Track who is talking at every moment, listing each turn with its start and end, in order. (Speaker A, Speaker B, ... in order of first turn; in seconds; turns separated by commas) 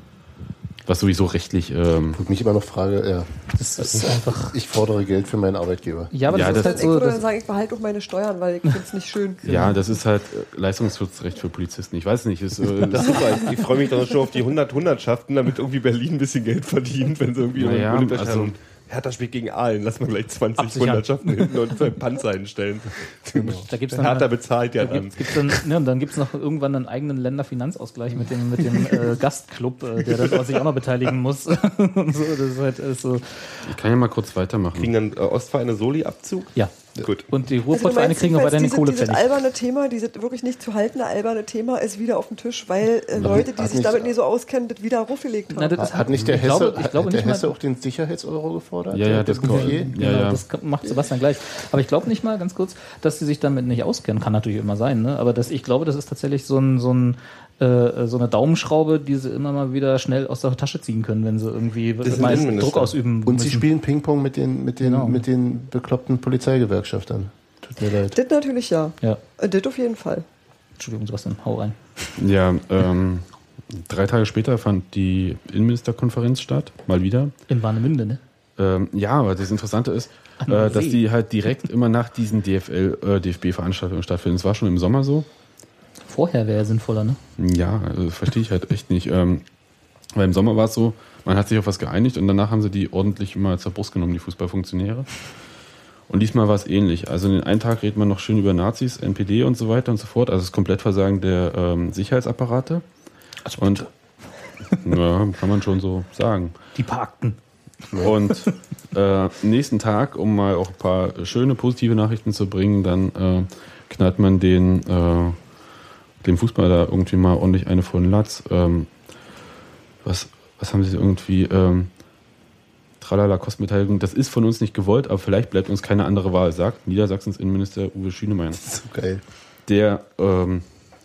Speaker A: 0.8-2.2, Speaker B: 2.1-3.3, Speaker C: 3.5-4.5, Speaker B: 3.9-6.2, Speaker C: 6.1-7.2, Speaker A: 6.3-6.8, Speaker D: 6.3-9.4, Speaker A: 9.4-13.5, Speaker C: 9.4-9.8, Speaker E: 12.8-25.6, Speaker A: 17.6-18.5, Speaker C: 20.6-21.5, Speaker B: 23.4-23.6, Speaker C: 23.7-33.7, Speaker A: 33.6-34.9, Speaker E: 34.8-37.3, Speaker C: 37.3-39.3, Speaker D: 37.7-45.9, Speaker A: 43.1-43.5, Speaker B: 43.2-44.1, Speaker C: 45.5-47.5, Speaker B: 45.8-49.9, Speaker A: 48.9-50.4, Speaker C: 49.4-63.7, Speaker E: 62.0-63.0, Speaker B: 63.2-68.2, Speaker C: 64.8-65.2, Speaker D: 68.1-70.2, Speaker C: 70.8-72.1, Speaker A: 72.2-77.3, Speaker C: 77.5-78.2, Speaker A: 78.6-85.3, Speaker C: 80.4-81.0, Speaker C: 86.1-87.2, Speaker A: 87.4-89.4, Speaker A: 90.1-95.1, Speaker A: 96.1-102.8, Speaker C: 103.5-103.9, Speaker A: 103.6-103.9, Speaker A: 104.8-106.5, Speaker C: 106.7-107.4, Speaker A: 108.0-115.4, Speaker A: 116.2-118.9, Speaker A: 120.0-121.9, Speaker A: 123.0-128.6, Speaker B: 128.5-129.2, Speaker A: 129.7-130.7